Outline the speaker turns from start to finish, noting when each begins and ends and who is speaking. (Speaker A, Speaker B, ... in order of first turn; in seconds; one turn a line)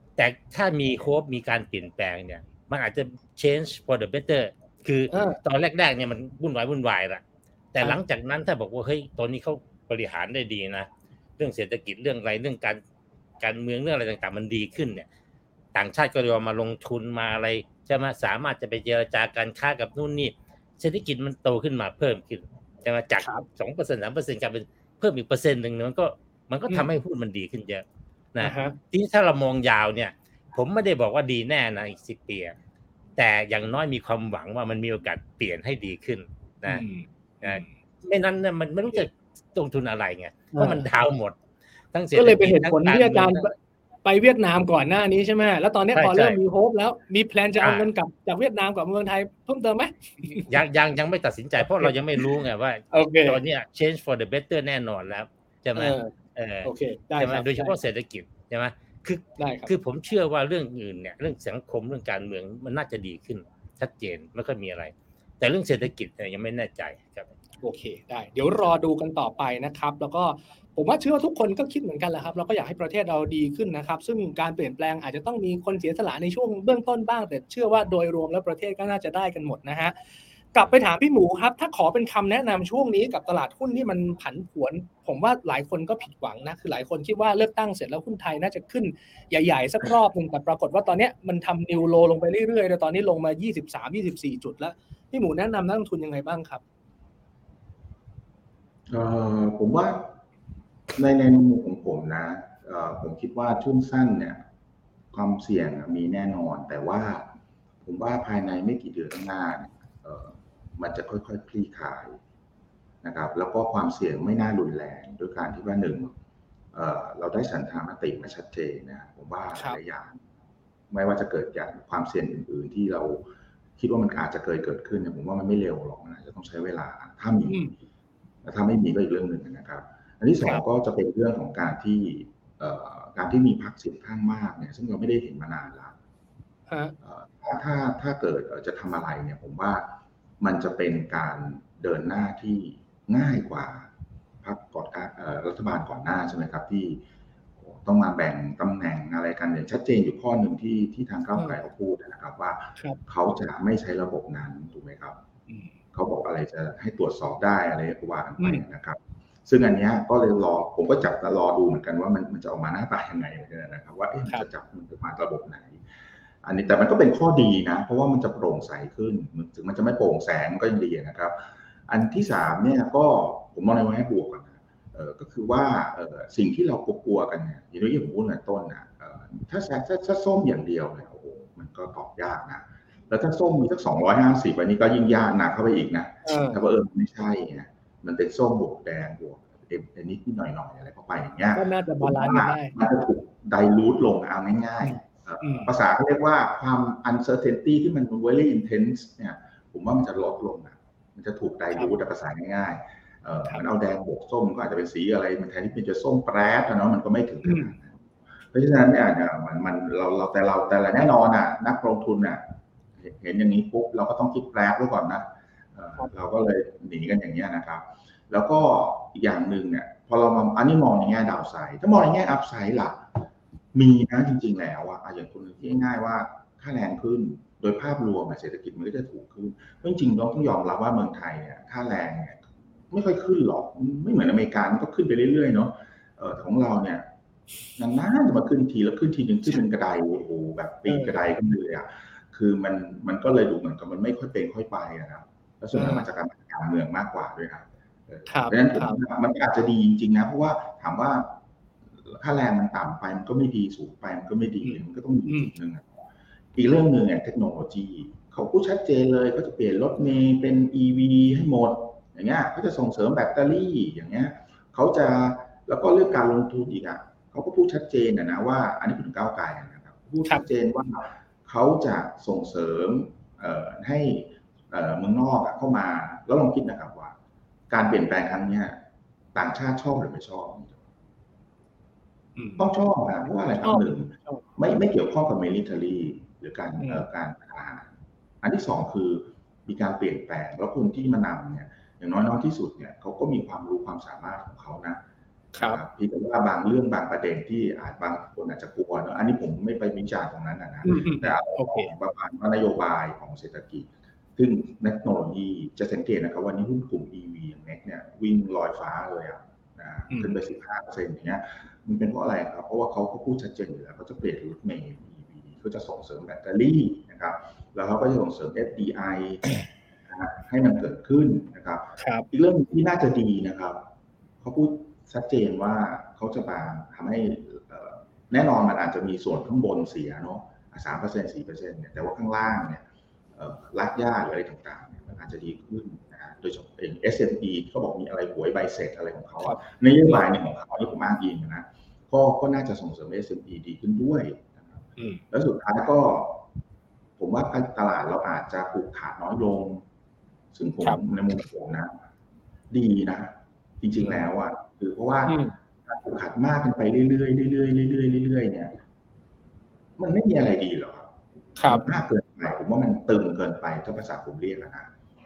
Speaker A: 0.2-12.8
Speaker B: 5.1-5.4
Speaker A: 13.4-15.1
Speaker A: 15.7-32.5
Speaker B: 28.4-28.8
Speaker A: 33.2-36.9
Speaker B: 36.6-37.7
Speaker A: 37.4-41.4
Speaker B: 40.5-40.9
Speaker A: 41.9-43.5
Speaker B: 42.1-43.5
Speaker B: 44.0-50.5
Speaker A: 45.9-46.4
Speaker A: 47.6-47.9
Speaker A: 50.5-67.3
Speaker B: 51.8-52.4
Speaker B: 52.9-53.4
Speaker B: 55.7-56.1
Speaker B: 56.6-57.8
Speaker B: 59.4-59.7
Speaker B: 67.6-79.9
Speaker B: 80.5-96.6
Speaker C: 98.9-100.1
Speaker C: 101.0-104.4
Speaker C: 105.1-107.2
Speaker C: 107.8-112.2
Speaker C: 113.0-116.1
Speaker C: 116.7-120.2
Speaker C: 120.9-123.2
Speaker C: 123.8-127.6
Speaker B: 127.5-127.7
Speaker C: 128.4-135.9
Speaker B: 136.7-136.9
Speaker C: 137.0-139.9
Speaker C: 140.4-143.9
Speaker C: 144.4-147.0
Speaker C: 147.6-155.2
Speaker B: 155.5-155.7
Speaker C: 155.9-165.8
Speaker B: 158.4-158.6
Speaker C: 166.4-208.0
Speaker B: 186.2-186.6
Speaker B: 191.5-192.8
Speaker B: 194.8-195.7
Speaker B: 207.4-207.7
Speaker C: 208.5-212.4
Speaker C: 213.0-223.1
Speaker C: 223.7-237.1
Speaker C: 237.8-251.4
Speaker B: 240.9-241.2
Speaker B: 245.7-246.0
Speaker B: 248.3-249.0
Speaker C: 252.0-255.8
Speaker B: 254.6-255.5
Speaker C: 256.5-277.1
Speaker C: 277.7-278.8
Speaker C: 279.3-280.8
Speaker B: 282.4-282.6
Speaker C: 282.6-287.9
Speaker B: 283.6-284.4
Speaker B: 286.8-287.1
Speaker C: 288.4-295.0
Speaker B: 295.5-295.8
Speaker C: 295.6-319.5
Speaker B: 300.8-301.9
Speaker B: 310.1-310.4
Speaker C: 320.1-323.8
Speaker B: 322.0-322.3
Speaker C: 324.4-332.8
Speaker C: 333.4-344.8
Speaker B: 339.4-340.2
Speaker B: 345.0-345.2
Speaker C: 345.3-346.4
Speaker C: 347.2-349.8
Speaker C: 350.5-352.0
Speaker C: 352.7-358.8
Speaker B: 354.0-354.2
Speaker B: 355.3-355.5
Speaker C: 360.0-361.1
Speaker B: 361.6-361.9
Speaker C: 361.6-364.9